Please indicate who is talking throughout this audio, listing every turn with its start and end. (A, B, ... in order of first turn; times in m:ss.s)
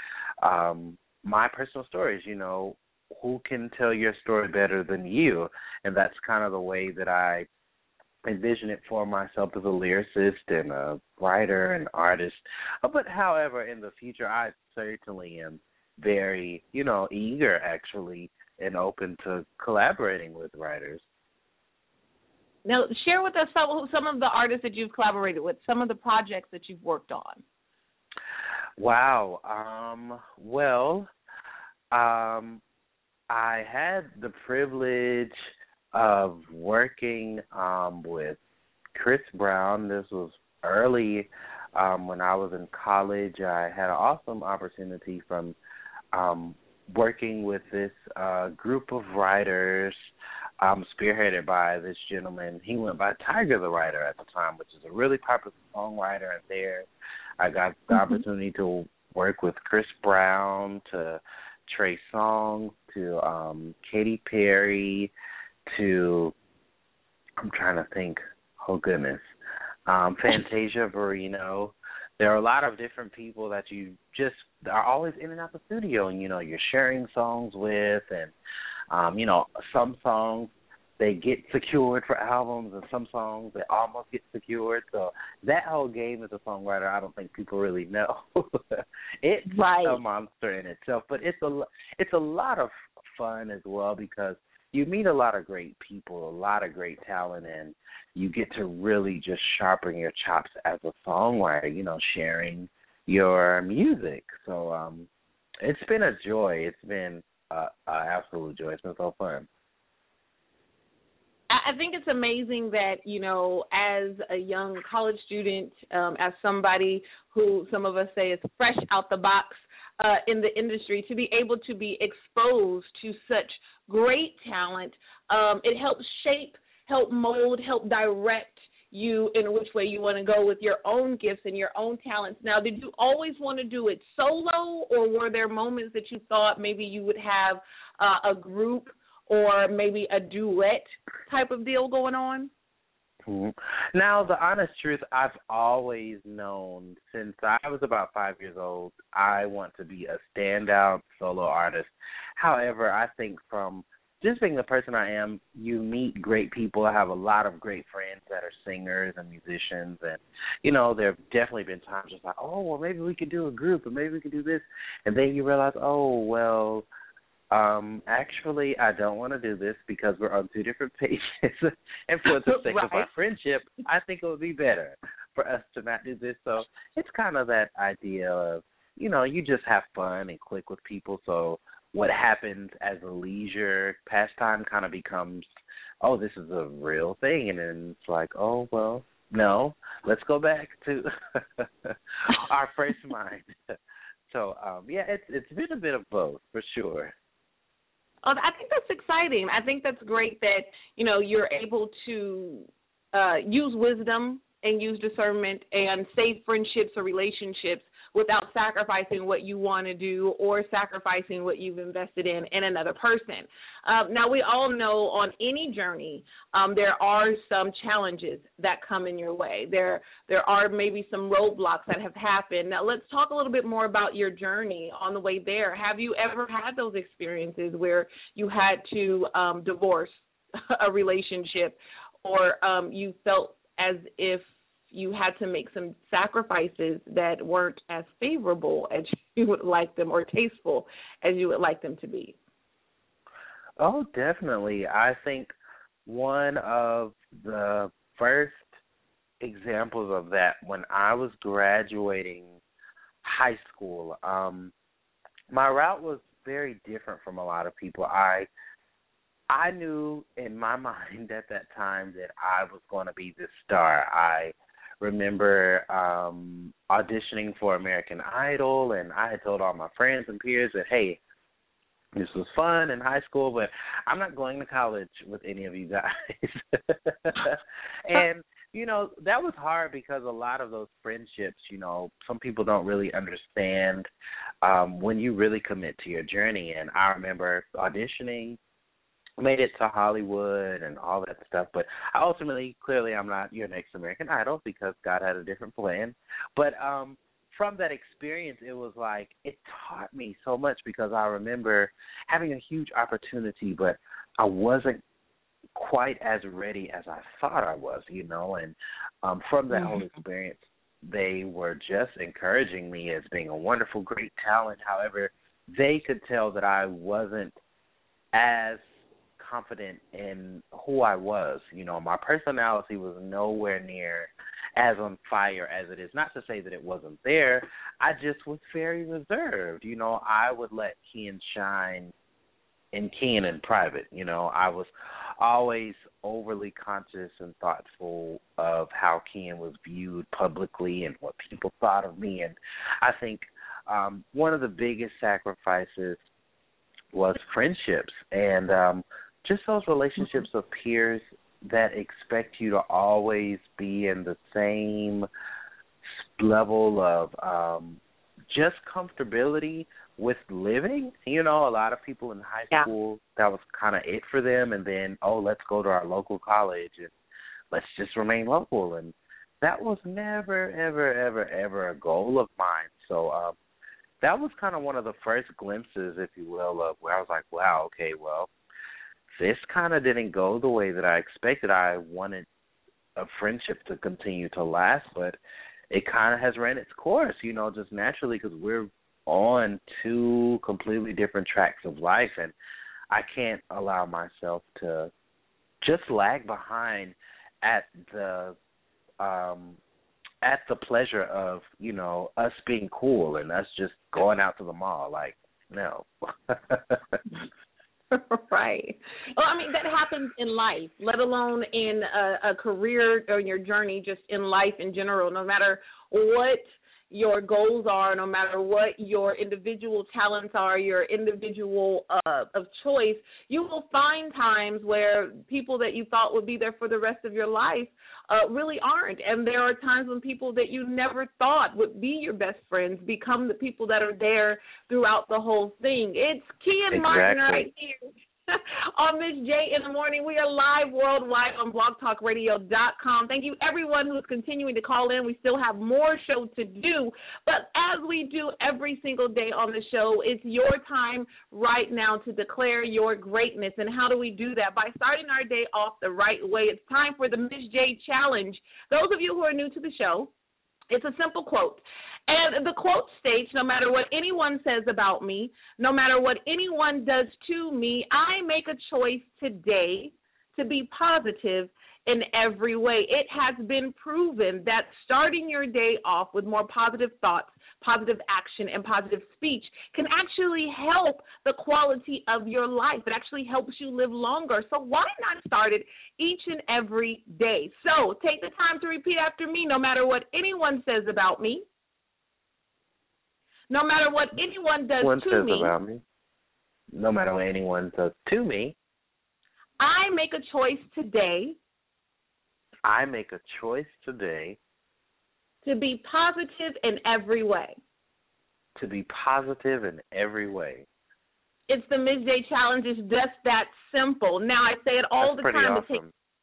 0:00.4-0:07.5 A
0:08.2-0:21.0 A
0:22.6-0:27.4 B
0:28.8-0:31.1 A
0:31.9-0:32.6 A
0:33.3-0:35.3 A
0:35.9-0:38.4 A
0:38.9-0:45.6 A
0:46.1-0:50.0 A
0:50.6-0:56.9 A
0:57.4-1:05.1 A
0:57.9-0:58.2 B
1:05.7-1:06.3 A
1:07.4-1:09.2 A
1:09.9-1:18.3 A
1:18.9-1:45.1 A
1:29.5-1:30.0 B
1:45.6-1:49.5 A
1:51.5-2:22.5 B
2:23.3-2:46.9 A
2:47.5-3:05.5 A
2:52.3-2:53.1 B
3:06.0-3:13.8 A
3:14.3-3:17.1 A
3:18.2-4:02.4 B
4:03.8-4:05.5 A
4:06.0-4:08.7 A
4:09.4-4:12.6 A
4:13.2-4:14.7 A
4:15.5-4:18.5 A
4:19.5-4:31.2 A
4:32.1-4:44.1 A
4:44.6-4:48.6 A
4:49.4-5:05.0 A
5:05.7-5:17.5 A
5:09.7-5:10.0 B
5:18.3-5:32.1 A
5:32.9-5:46.2 A
5:47.1-5:55.3 A
5:56.0-6:07.1 A
6:07.7-6:13.6 A
6:14.2-6:18.5 A
6:19.3-6:22.5 A
6:23.2-6:25.4 A
6:25.9-6:32.5 A
6:33.1-6:35.1 A
6:35.8-6:38.6 A
6:39.2-6:39.8 A
6:40.4-6:47.2 A
6:48.1-7:40.3 B
7:16.9-7:17.7 A
7:40.9-8:11.6 B
8:13.7-8:15.7 B
8:15.0-8:16.0 A
8:16.9-8:18.8 A
8:19.8-8:21.6 B
8:22.8-8:24.6 A
8:25.6-8:27.8 B
8:28.8-8:30.9 A
8:31.7-8:36.0 B
8:35.2-8:36.1 A